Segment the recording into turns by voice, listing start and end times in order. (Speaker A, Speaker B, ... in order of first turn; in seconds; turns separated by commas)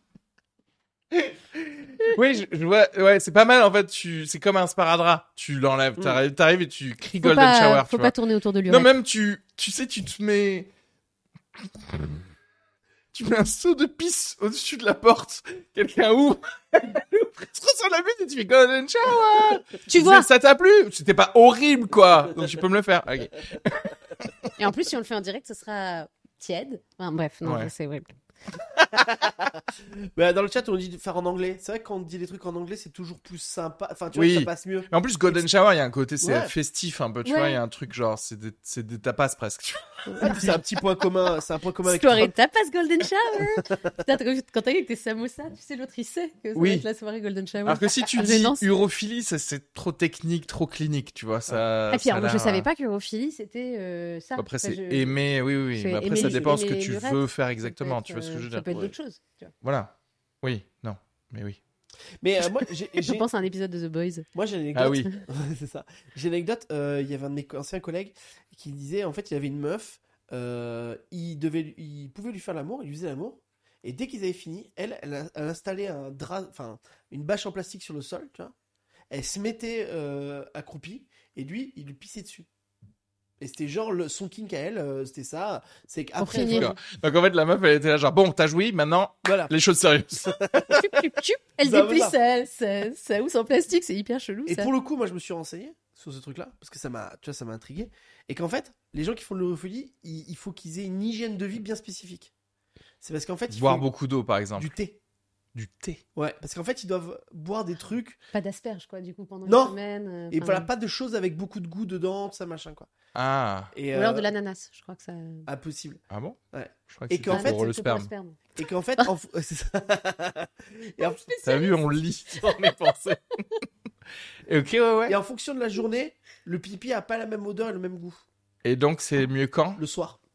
Speaker A: 1.1-8.1, Speaker B: 7.2-8.9, Speaker A: 8.7-10.7, Speaker A: 13.1-24.5, Speaker B: 19.9-20.3, Speaker B: 24.6-28.1, Speaker A: 27.4-27.7, Speaker C: 28.8-35.5, Speaker A: 34.1-40.4, Speaker C: 36.2-36.5, Speaker B: 37.2-37.6, Speaker C: 40.2-42.3, Speaker B: 41.8-48.6, Speaker A: 46.5-46.9, Speaker A: 47.7-52.7, Speaker B: 51.9-55.1, Speaker A: 54.4-58.9, Speaker B: 55.7-59.5, Speaker C: 56.1-56.6, Speaker A: 59.6-61.6, Speaker C: 62.2-63.2, Speaker B: 63.0-64.3, Speaker C: 64.3-78.5, Speaker A: 64.8-65.1, Speaker C: 79.1-82.5, Speaker C: 83.4-86.8, Speaker B: 86.2-86.8, Speaker A: 86.5-90.4, Speaker C: 89.2-89.5, Speaker C: 90.2-90.8, Speaker B: 90.7-94.7, Speaker C: 91.6-92.2, Speaker C: 94.5-102.3, Speaker C: 103.0-103.9, Speaker A: 103.5-104.7, Speaker C: 104.6-105.0, Speaker A: 105.5-106.0, Speaker C: 106.2-108.2, Speaker B: 108.3-110.7, Speaker C: 109.5-109.8, Speaker C: 110.3-112.9, Speaker A: 113.1-113.7, Speaker C: 113.7-114.3, Speaker B: 113.9-115.5, Speaker C: 115.5-117.7, Speaker A: 116.1-116.4, Speaker A: 116.9-118.1, Speaker B: 117.3-119.1, Speaker C: 118.6-121.2, Speaker B: 121.0-121.8, Speaker A: 121.4-123.4, Speaker A: 124.5-125.2, Speaker C: 125.1-128.2, Speaker A: 128.6-129.8, Speaker C: 129.8-130.2